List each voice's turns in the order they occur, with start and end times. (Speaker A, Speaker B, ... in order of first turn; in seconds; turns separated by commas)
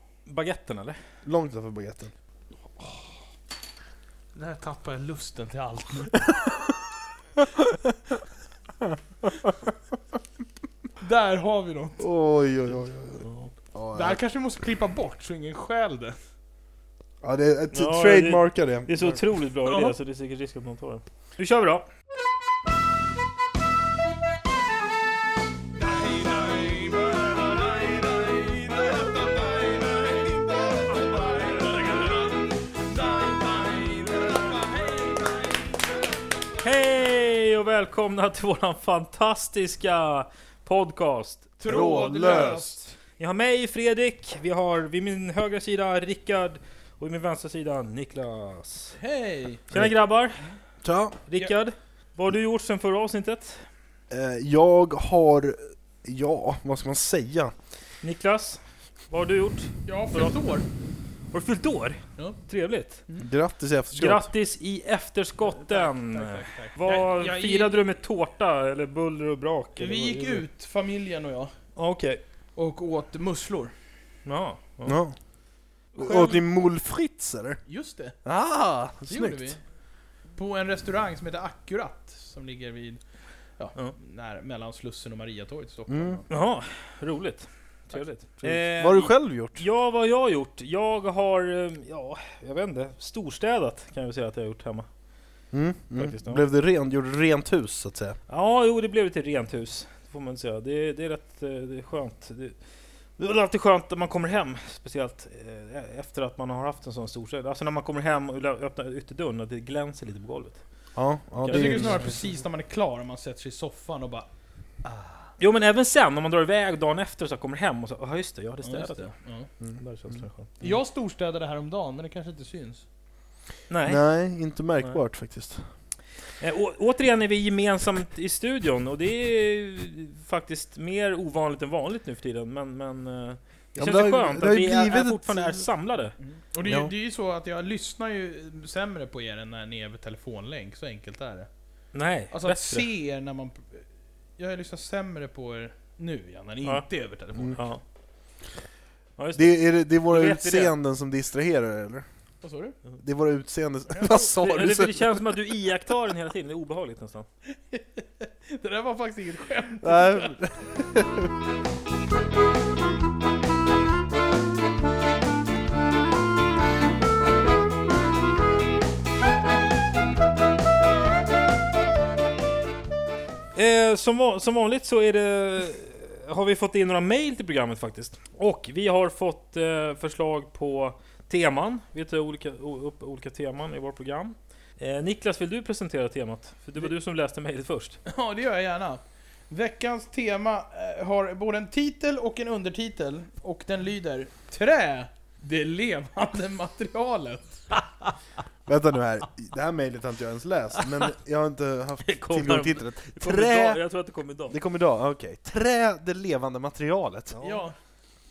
Speaker A: 0.2-1.0, Speaker B: 1.2-2.1, Speaker C: 4.3-6.2, Speaker B: 8.8-9.5, Speaker C: 11.0-12.0, Speaker B: 12.0-14.2, Speaker A: 13.2-13.5, Speaker C: 13.9-16.2, Speaker B: 17.2-19.2, Speaker A: 17.7-21.9, Speaker C: 19.6-19.9, Speaker C: 25.8-35.6, Speaker A: 36.6-41.5, Speaker C: 41.6-42.9, Speaker B: 41.7-42.8, Speaker A: 43.2-49.0, Speaker C: 49.0-49.6, Speaker A: 49.7-50.4, Speaker B: 50.8-51.2, Speaker A: 51.3-53.6, Speaker B: 54.1-57.5, Speaker A: 58.0-60.3, Speaker C: 59.9-60.6, Speaker A: 61.3-63.0, Speaker B: 63.2-64.3, Speaker A: 63.9-70.4, Speaker C: 65.4-67.8, Speaker C: 69.8-71.5, Speaker A: 71.8-72.2, Speaker C: 72.6-73.7, Speaker A: 74.3-75.0, Speaker B: 74.8-75.2, Speaker B: 76.0-77.6, Speaker A: 76.0-76.3, Speaker C: 77.7-78.2, Speaker B: 78.2-79.6, Speaker C: 79.1-79.6, Speaker C: 80.4-83.0, Speaker C: 83.6-86.3, Speaker B: 85.9-86.2, Speaker A: 86.3-94.9, Speaker B: 88.4-89.7, Speaker B: 95.5-98.2, Speaker A: 96.0-96.5, Speaker A: 98.3-102.6, Speaker A: 103.2-110.6, Speaker B: 111.0-112.2, Speaker A: 111.4-112.2, Speaker C: 111.5-114.3, Speaker C: 114.8-115.2, Speaker A: 115.4-119.1, Speaker C: 118.6-119.5, Speaker A: 119.8-120.6, Speaker C: 120.6-122.8, Speaker A: 123.7-124.0, Speaker B: 123.8-125.6, Speaker A: 126.4-136.2, Speaker B: 133.8-135.7, Speaker C: 136.2-141.5, Speaker B: 136.7-136.9, Speaker A: 141.9-142.9, Speaker C: 142.3-143.8, Speaker C: 144.4-147.6, Speaker A: 147.5-147.8, Speaker A: 149.2-150.7, Speaker B: 149.3-152.1, Speaker C: 152.4-152.8, Speaker B: 153.0-155.2, Speaker C: 153.9-154.7, Speaker A: 154.4-157.3, Speaker C: 157.7-160.3, Speaker B: 159.8-161.3, Speaker A: 173.6-188.0, Speaker C: 188.1-197.8, Speaker B: 198.7-203.8, Speaker A: 200.8-201.1, Speaker A: 202.1-204.6, Speaker B: 204.5-207.6, Speaker C: 207.4-207.8